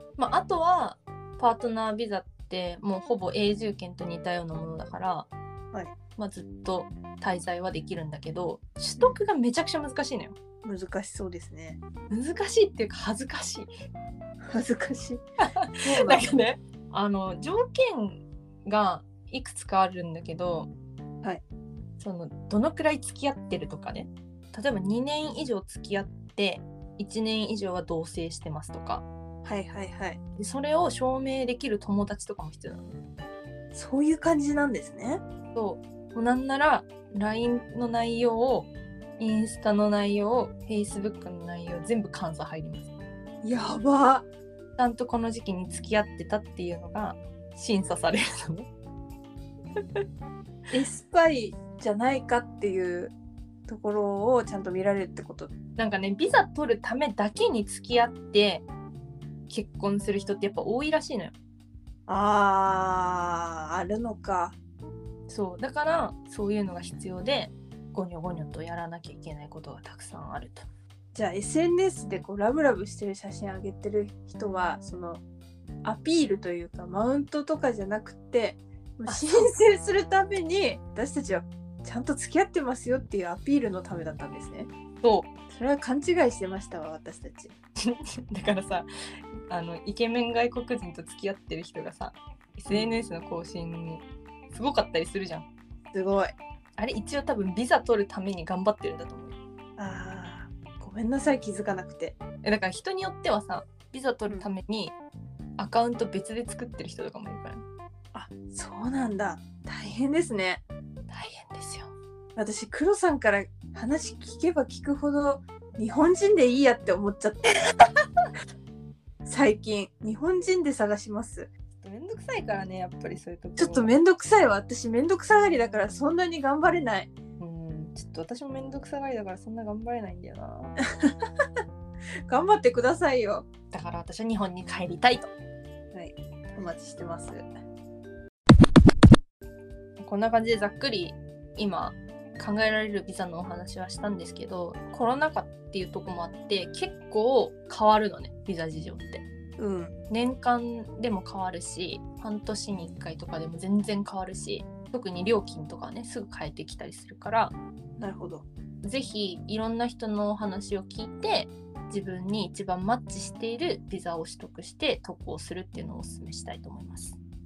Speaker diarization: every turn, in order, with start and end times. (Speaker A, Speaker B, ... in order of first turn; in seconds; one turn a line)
Speaker A: 0.2-5.3
Speaker A: 6.2-10.3
Speaker B: 10.6-11.8
Speaker A: 12.1-13.7
Speaker B: 14.4-15.2
Speaker A: 15.4-20.7
Speaker B: 15.8-16.2
Speaker A: 22.0-29.1
Speaker B: 29.4-30.2
Speaker A: 30.4-32.9
Speaker B: 33.7-35.2
Speaker A: 35.5-42.9
Speaker B: 43.4-44.3
Speaker A: 44.8-48.7
Speaker A: 49.8-50.0
Speaker B: 50.7-53.1
Speaker B: 53.7-55.5
Speaker A: 55.8-58.6
Speaker A: 59.5-61.3
Speaker B: 62.1-64.6
Speaker A: 65.3-70.7
Speaker B: 71.1-75.2
Speaker B: 75.8-84.7
Speaker A: 79.1-79.5
Speaker A: 85.0-85.3
Speaker B: 85.5-87.5
Speaker A: 87.9-95.5
Speaker B: 95.9-96.3
Speaker A: 96.8-99.3
Speaker B: 99.8-102.2
Speaker A: 102.4-104.9
Speaker A: 105.6-107.6
Speaker B: 108.1-110.6
Speaker A: 111.1-111.9
Speaker B: 112.4-117.9
Speaker B: 119.2-121.5
Speaker A: 121.8-123.9
Speaker B: 123.6-127.1
Speaker A: 127.4-130.8
Speaker B: 132.3-133.5
Speaker A: 133.7-135.3
Speaker B: 135.9-137.5
Speaker A: 140.0-149.2
Speaker B: 149.6-149.9
Speaker A: 150.1-157.6
Speaker B: 158.0-158.4
Speaker A: 158.8-167.2